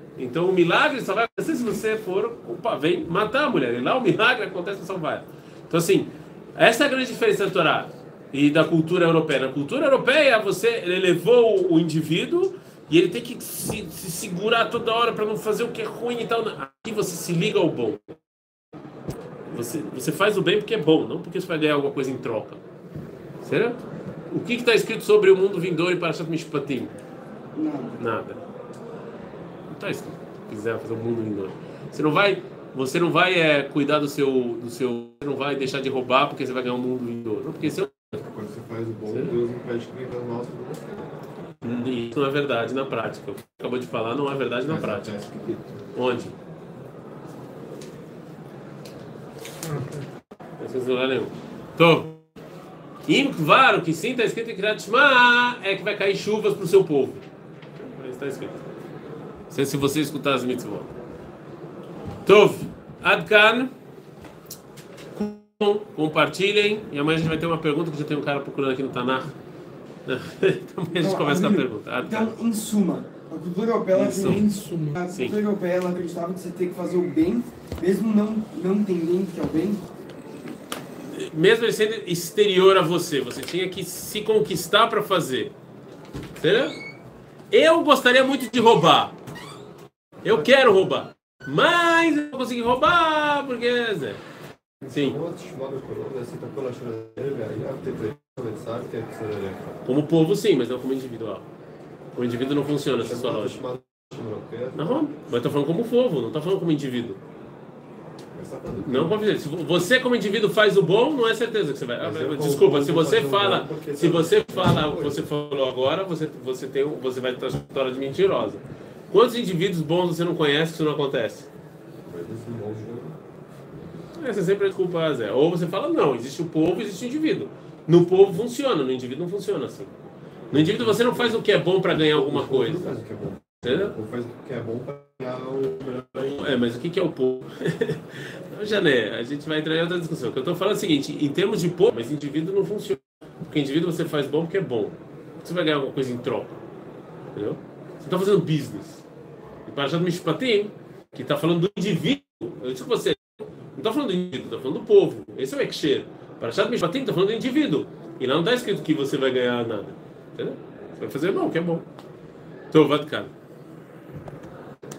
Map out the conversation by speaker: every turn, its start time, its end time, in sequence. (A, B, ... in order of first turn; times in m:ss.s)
0:00.2-0:18.2 A
0:19.5-0:22.6 A
0:23.4-0:26.9 A
0:27.5-0:28.0 B
0:28.0-0:28.4 A
0:29.7-0:38.0 A
0:38.2-0:41.1 C
0:39.1-0:39.3 A
0:41.6-0:45.2 A
0:44.7-0:45.8 C
0:45.9-0:46.3 A
0:50.6-0:52.2 A
0:53.0-0:57.2 A
0:57.8-0:58.6 A
0:59.5-1:00.9 A
1:02.2-1:03.7 A
1:05.1-1:09.3 A
1:10.0-1:12.3 A
1:10.9-1:19.8 B
1:13.9-1:14.5 A
1:15.1-1:15.4 A
1:21.0-1:25.5 A
1:26.4-1:26.8 A
1:27.5-1:29.2 A
1:30.2-1:34.2 A
1:34.8-1:39.8 C
1:34.9-1:35.2 A
1:39.8-1:41.5 A
1:42.1-1:43.6 A
1:43.0-1:45.1 C
1:44.8-1:47.2 A
1:48.3-1:49.2 C
1:48.8-2:01.5 A
1:52.0-1:55.3 C
2:02.1-2:03.1 C
2:04.2-2:09.9 A
2:10.5-2:13.0 A
2:10.5-2:11.4 C
2:11.9-2:15.9 C
2:13.6-2:13.9 A
2:15.8-2:26.6 A
2:27.3-2:29.0 A
2:29.6-2:41.9 A
2:42.7-2:43.3 A